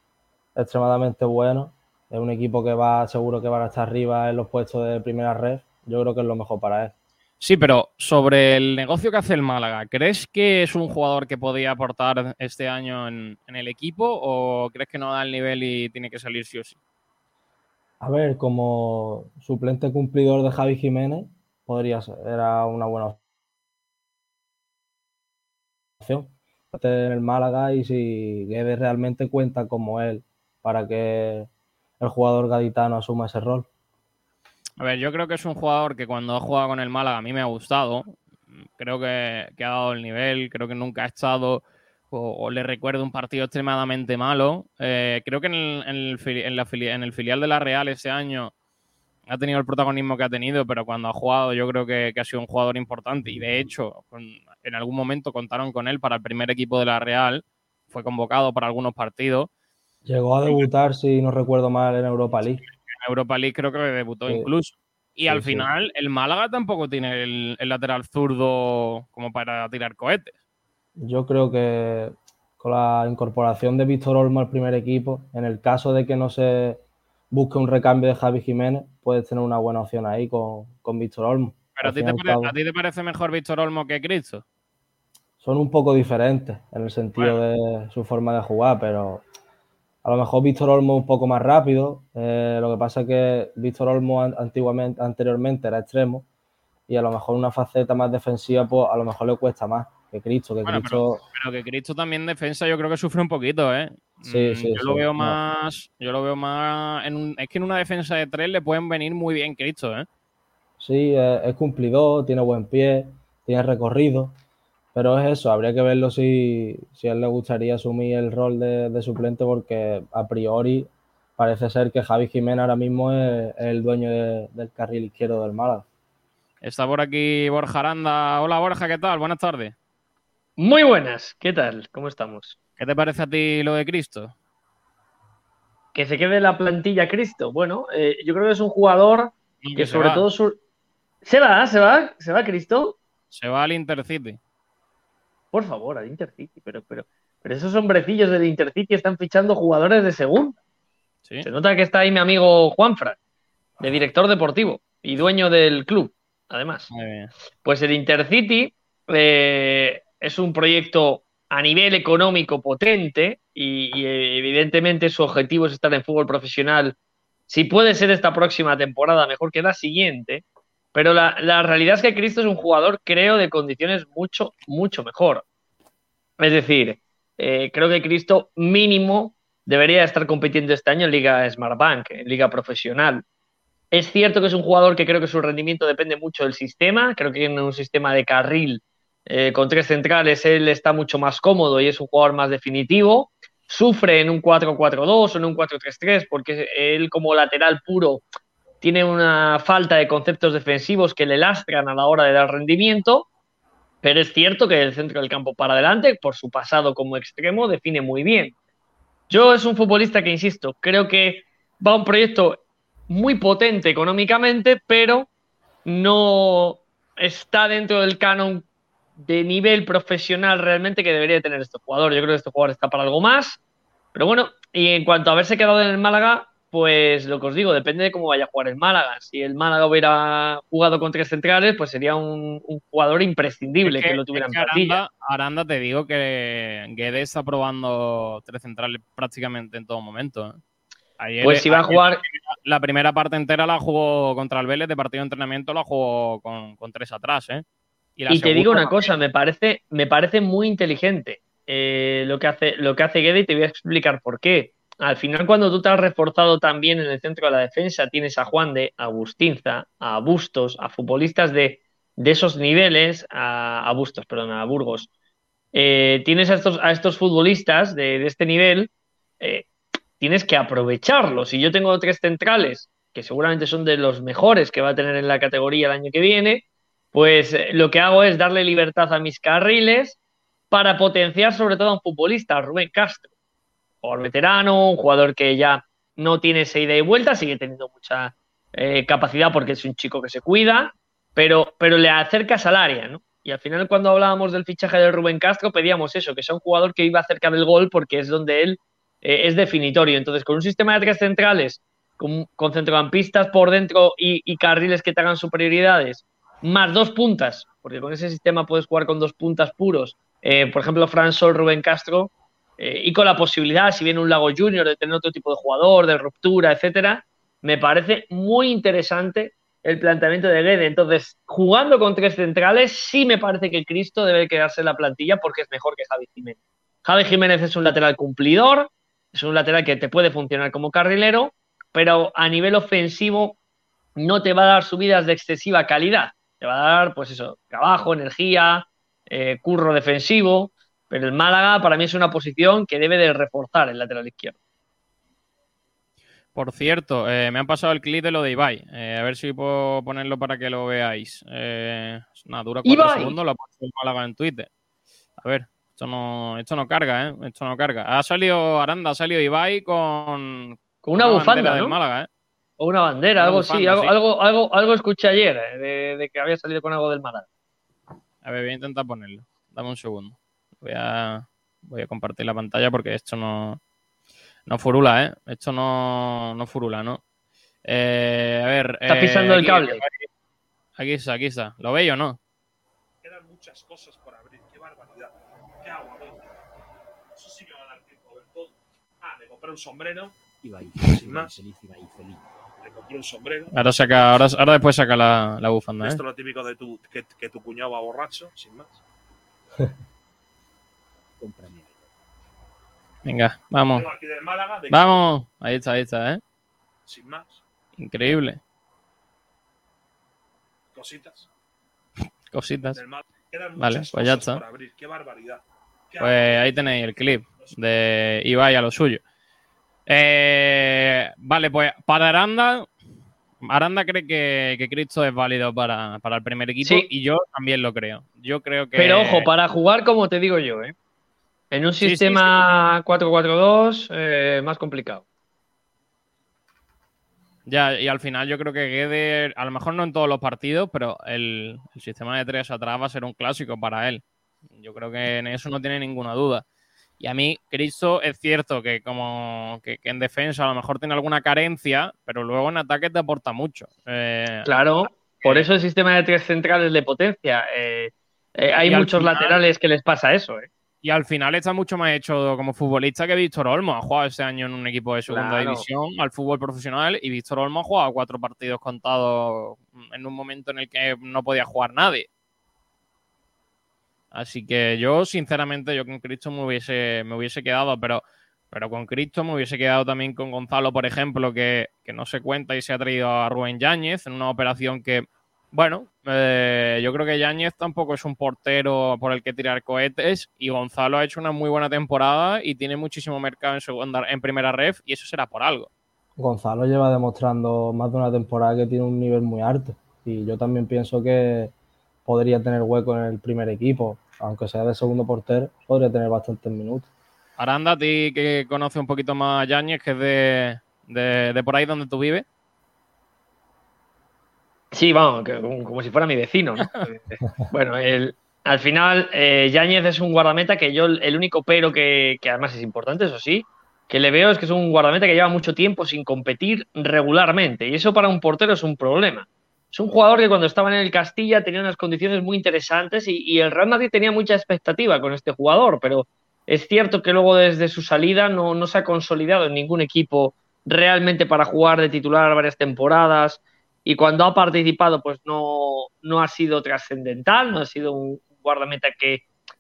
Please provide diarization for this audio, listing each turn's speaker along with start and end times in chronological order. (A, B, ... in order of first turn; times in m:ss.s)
0:00.6-0:06.9 A
0:07.4-0:16.8 B
0:18.0-0:23.2 A
0:26.0-0:31.5 A
0:32.0-0:33.7 A
0:34.8-0:38.2 B
0:38.8-0:48.5 B
0:49.3-0:59.5 B
1:00.1-1:02.6 A
1:02.4-1:10.4 B
1:05.3-1:05.7 A
1:11.0-1:22.6 A
1:21.8-1:24.4 B
1:25.4-1:29.2 A
1:30.0-1:36.3 A
1:36.9-1:41.2 A
1:40.7-1:50.1 B
1:44.2-1:45.4 A
1:50.8-1:54.4 A
1:54.9-2:05.9 A
2:06.6-2:09.8 B
2:10.6-2:12.6 C
2:12.8-2:14.3 B
2:15.9-2:20.6 C
2:19.6-2:20.2 B
2:21.2-2:23.0 C
2:23.3-2:24.4 B
2:25.5-2:30.6 C
2:31.4-2:33.2 C
2:33.8-2:36.9 C
2:36.9-2:37.3 B
2:37.6-2:47.0 C
2:47.5-2:50.4 C
2:50.9-2:55.4 C
2:56.4-3:03.2 C
3:03.9-3:18.2 C
3:18.8-3:23.3 C
3:24.0-3:28.5 C
3:29.3-3:35.3 C
3:35.9-3:38.6 C
3:39.2-3:43.6 C
3:44.2-3:55.0 C
3:53.8-4:00.6 B
4:01.2-4:07.6 B
4:01.4-4:02.2 C
4:08.2-4:09.1 B
4:08.3-4:25.1 C
4:25.7-4:28.9 C
4:29.4-4:29.7 C
4:30.2-4:40.2 C
4:40.7-4:43.3 C
4:44.0-5:33.6 C
5:34.2-5:44.6 C
5:46.6-5:54.7 B
5:52.8-5:53.4 C
5:55.4-6:02.3 B
6:01.0-6:02.0 C
6:02.8-6:07.5 C
6:03.4-6:04.1 B
6:08.4-6:13.8 B
6:14.7-6:17.2 B
6:17.9-6:20.3 B
6:19.1-6:20.0 C
6:21.0-6:22.4 B
6:23.2-6:26.5 D
6:27.4-6:30.4 D
6:30.6-6:32.4 E
6:31.0-6:31.6 D
6:32.8-6:33.7 D
6:33.7-6:36.2 B
6:36.0-6:39.0 D
6:41.4-6:41.9 E
6:43.2-6:44.1 B
6:43.9-6:45.2 D
6:44.9-6:46.4 B
6:47.1-6:47.6 D
6:48.0-6:48.6 B
6:50.9-6:51.5 D
6:52.5-6:53.0 B
6:52.9-6:56.7 D
6:53.8-6:54.6 B
6:56.2-6:59.2 B
7:00.1-7:02.9 B
7:03.6-7:09.5 B
7:09.0-7:10.9 C
7:11.7-7:15.2 C
7:12.0-7:12.7 B
7:17.7-7:24.2 B
7:24.8-7:26.6 B
7:27.2-7:34.7 B
7:34.7-7:40.7 C
7:35.4-7:35.7 B
7:38.8-7:39.6 B
7:41.0-7:52.3 B
7:45.3-7:45.8 C
7:54.3-8:15.9 B
8:16.4-8:21.7 A
8:22.3-8:27.1 A
8:27.6-8:32.4 B
8:34.9-9:09.4 C